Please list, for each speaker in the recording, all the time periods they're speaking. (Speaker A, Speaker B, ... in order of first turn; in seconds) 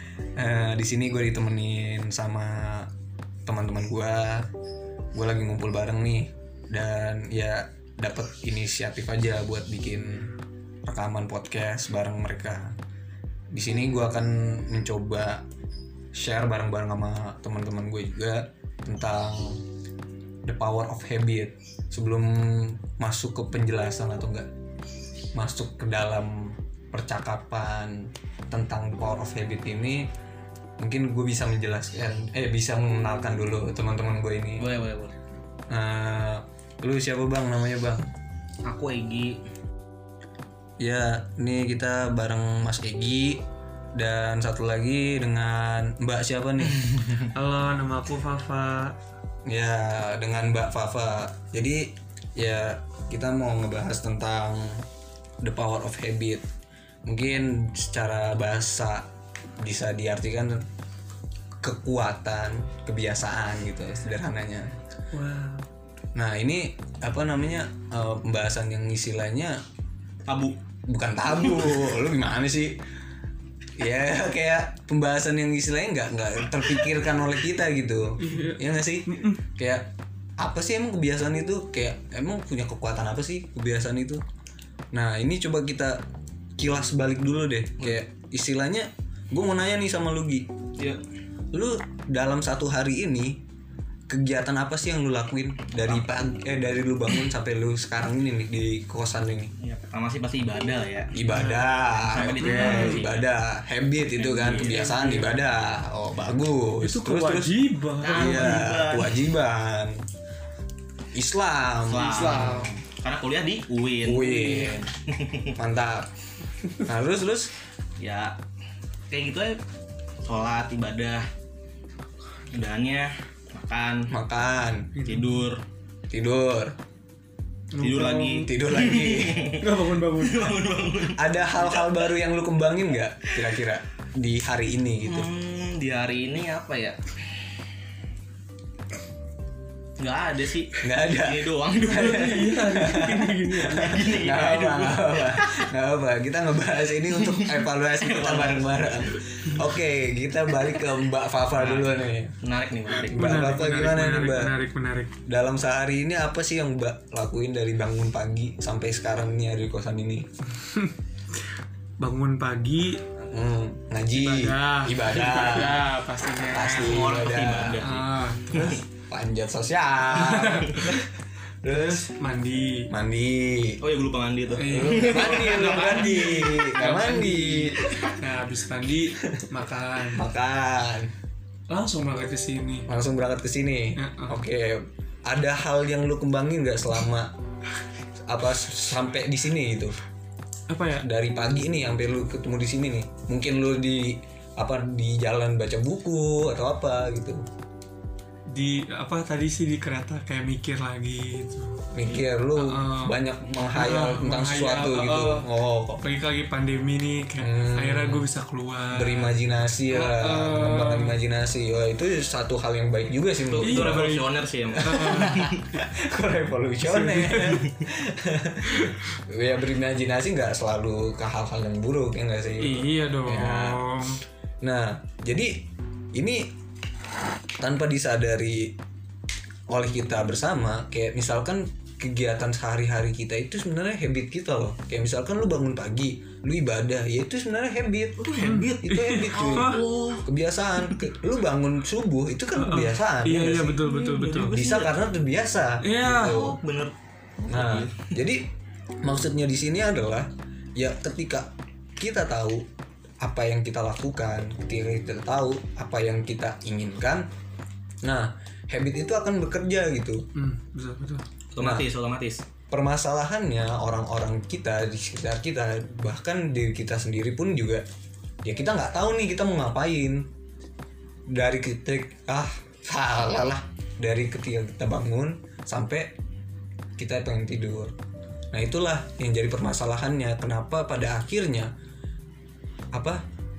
Speaker A: 0.4-2.9, 3.5-4.5, 5.1-10.3, 10.9-12.8, 13.5-15.4, 16.1-19.6, 20.4-24.5, 25.4-30.1, 30.8-34.7, 35.7-38.1, 40.8-43.4, 44.0-46.8, 49.5-54.9, 55.4-56.4, 57.1-59.1, 59.6-60.6, 61.6-64.7, 66.2-69.6, 70.9-72.8, 73.8-84.2, 84.9-86.0, 86.6-90.5, 91.5-93.4, 94.1-99.5, 101.1-110.0, 111.1-112.5, 114.0-114.9, 115.5-116.1, 116.8-117.5, 124.1-124.9, 126.1-126.7, 128.4-129.5, 131.2-135.3, 140.8-141.6, 142.2-152.3, 153.0-154.5, 155.3-160.3, 163.3-165.8, 166.5-167.8, 169.1-171.0, 171.6-172.1, 172.9-173.8, 174.7-177.8, 180.1-181.1, 182.9-187.3, 188.3-190.0, 191.0-197.4, 201.9-206.0, 207.4-208.3, 208.9-214.1, 214.9-224.0, 224.6-225.5, 226.2-226.5, 227.6-228.7, 229.7-238.3, 238.8-243.8, 244.5-246.6, 247.5-248.4, 249.0-252.7, 253.2-257.3, 258.0-260.2, 261.6-261.9, 262.7-267.9, 268.4-270.3, 271.3-276.1, 277.0-277.9, 278.5-281.7, 282.9-283.2
Speaker B: 34.6-35.2, 38.6-39.4, 70.3-70.6, 99.6-101.1, 102.1-103.3, 108.0-109.2, 111.9-115.5, 118.0-118.4, 119.1-119.6, 120.2-121.3, 122.5-124.1, 125.0-125.6, 127.8-132.1, 135.1-137.0, 140.0-142.6, 143.8-145.6, 147.2-149.2, 151.5-153.5, 166.8-168.8, 173.8-176.1, 213.4-215.6, 238.2-240.3, 243.7-245.0, 246.0-248.2, 261.5-262.4
Speaker C: 47.3-49.0, 65.1-65.7, 78.2-79.4, 101.3-101.7, 102.4-103.1, 104.2-105.4, 106.8-108.7, 112.0-112.8, 114.4-114.8, 125.0-125.4, 127.7-128.5, 129.6-130.6, 141.9-144.1, 153.1-155.1, 160.6-160.9, 162.0-163.0, 164.1-167.2, 167.8-168.8, 170.1-171.1, 171.7-172.9, 174.6-180.3, 181.7-182.9, 184.0-184.4, 190.7-191.1, 198.5-201.8, 202.6-203.2, 203.7-211.2, 213.6-215.4, 216.8-217.6, 218.7-219.0, 222.6-224.2, 238.4-239.8, 242.5-244.6, 245.8-246.4, 260.4-261.2